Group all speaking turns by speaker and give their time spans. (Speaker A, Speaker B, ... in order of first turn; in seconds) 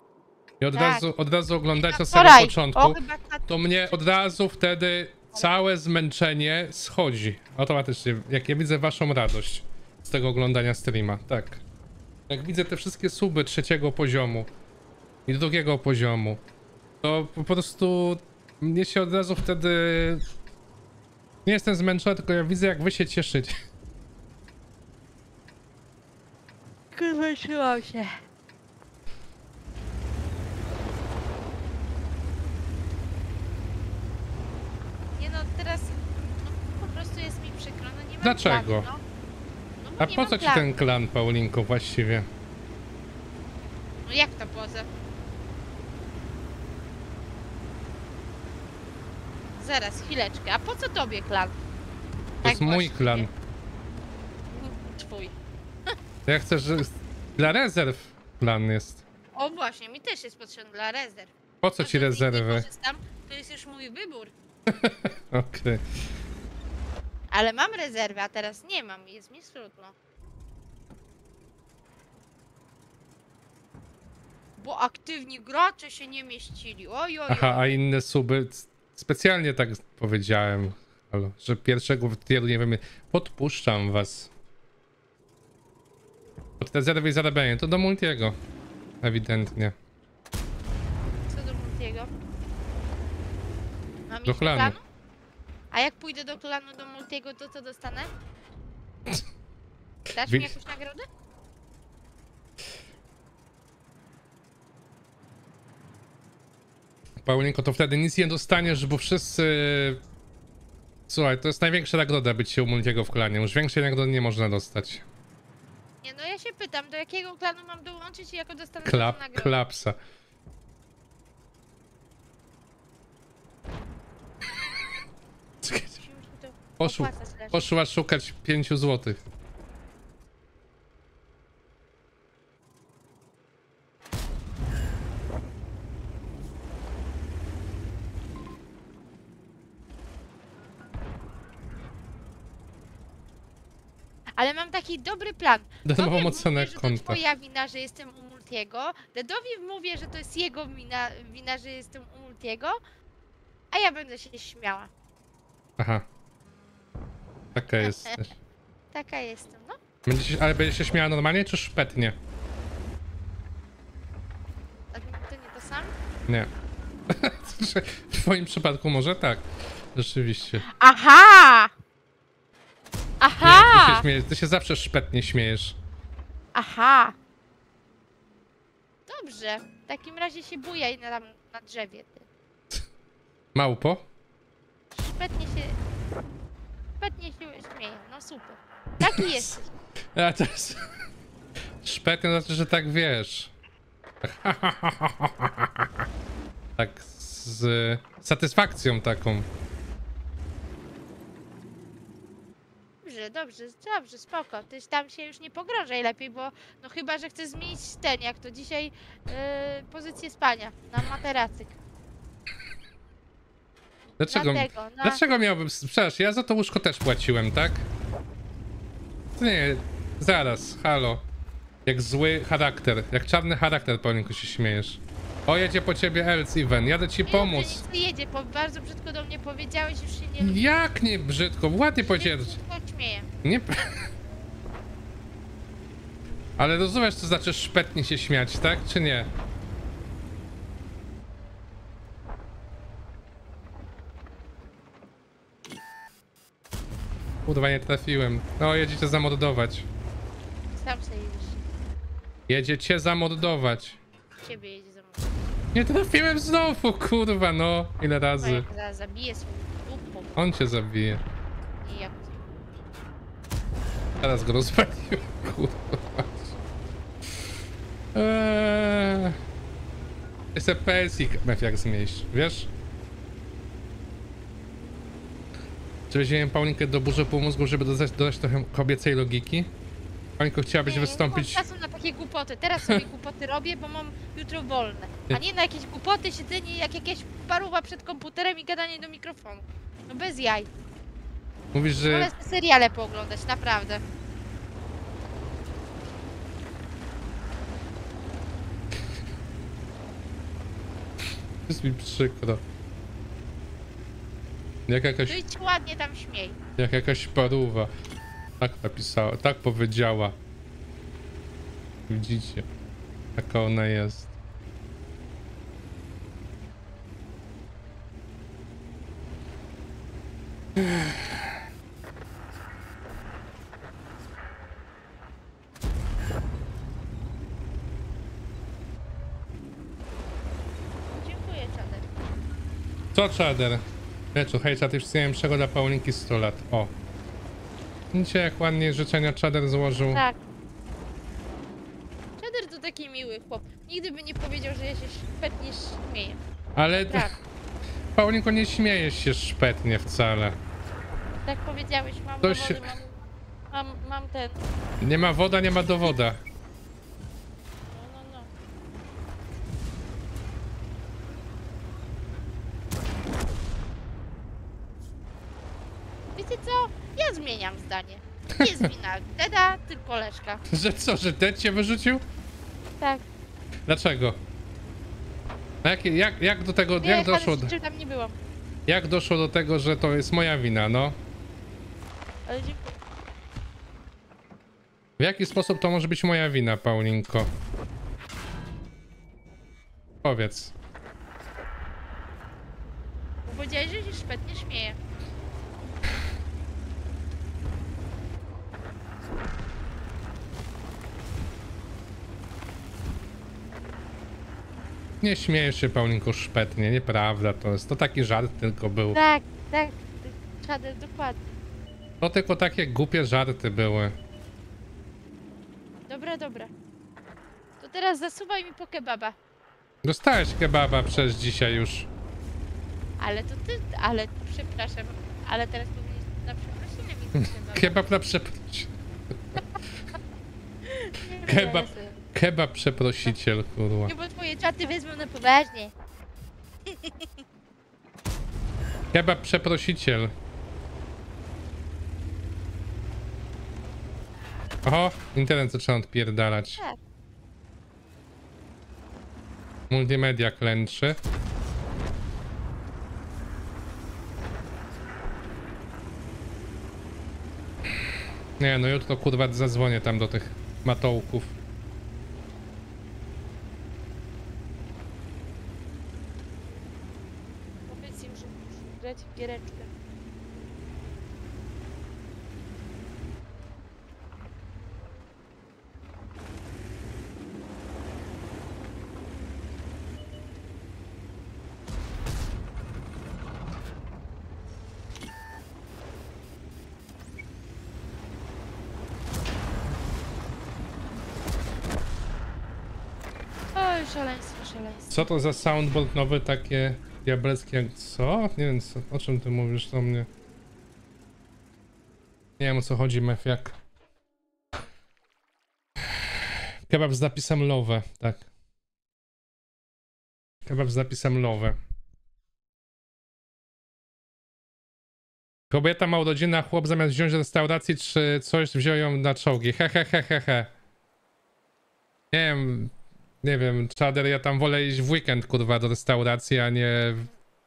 Speaker A: 0.6-11.6, 12.3-14.5, 15.3-16.4, 17.0-20.2, 21.4-23.5, 38.2-38.9, 40.0-42.3, 52.4-53.3, 56.2-59.0, 61.6-62.7, 64.8-65.8, 77.3-84.3, 86.6-88.3, 89.0-89.7, 94.2-94.8, 100.2-100.5, 107.2-110.0, 111.1-115.0, 118.8-120.0, 125.6-126.0, 126.8-129.2, 145.8-147.2, 155.8-156.0, 157.5-158.3, 160.0-162.2, 167.1-170.7, 173.4-175.8, 183.5-184.1, 189.1-189.5, 190.1-190.8, 191.8-193.5, 194.2-195.9, 196.8-199.5, 214.2-217.9, 219.4-221.2, 221.8-227.8, 230.4-232.6, 233.4-234.1, 236.6-239.3, 247.4-249.9, 252.5-254.0, 255.7-258.6, 260.4-261.2, 264.2-266.5, 268.1-269.4, 270.5-272.7, 276.1-279.7, 280.4-281.6, 291.7-292.3, 301.6-302.6, 304.9-305.4, 306.8-307.9, 308.6-310.4, 312.1-312.7, 313.4-314.3, 320.8-321.3, 333.1-336.9, 338.1-340.2, 346.7-347.3, 348.1-350.6, 352.4-352.9, 355.0-356.4, 368.6-368.9, 370.7-372.2, 373.9-374.4, 375.8-377.7, 378.9-381.2, 385.2-387.5, 390.2-390.7, 405.2-409.2, 412.2-414.1, 420.0-422.1, 427.4-428.9, 431.4-434.1, 439.1-440.3, 444.8-446.8, 449.9-451.2, 458.6-461.6, 495.1-500.3, 502.6-503.8, 506.1-508.5, 510.7-511.8, 515.7-520.7, 522.3-527.3
Speaker B: 0.7-1.1, 1.7-3.9, 26.9-28.1, 35.1-39.0, 39.8-40.6, 44.0-44.9, 49.6-51.5, 52.4-53.3, 54.5-55.3, 59.3-64.3, 67.3-70.0, 74.6-77.7, 91.3-92.1, 94.1-94.8, 95.7-98.1, 100.1-101.0, 116.0-119.5, 126.0-127.6, 144.4-152.8, 153.7-154.9, 157.8-158.2, 158.9-159.8, 164.9-165.9, 170.8-171.7, 173.2-174.0, 176.5-177.1, 179.1-182.3, 184.9-185.8, 187.0-189.7, 203.0-211.8, 214.3-215.2, 227.2-230.7, 232.0-233.3, 250.7-251.6, 254.4-255.3, 258.4-260.3, 261.8-262.4, 280.8-290.7, 292.0-294.0, 305.3-306.6, 331.1-332.1, 340.1-340.4, 342.4-346.4, 346.9-347.3, 351.4-353.1, 353.7-354.6, 357.9-358.5, 366.4-370.6, 373.0-373.2, 377.0-378.4, 382.5-383.0, 393.4-395.0, 409.1-411.4, 416.1-416.7, 417.8-419.4, 423.2-428.1, 430.9-432.2, 434.1-435.9, 467.9-469.9, 493.7-495.3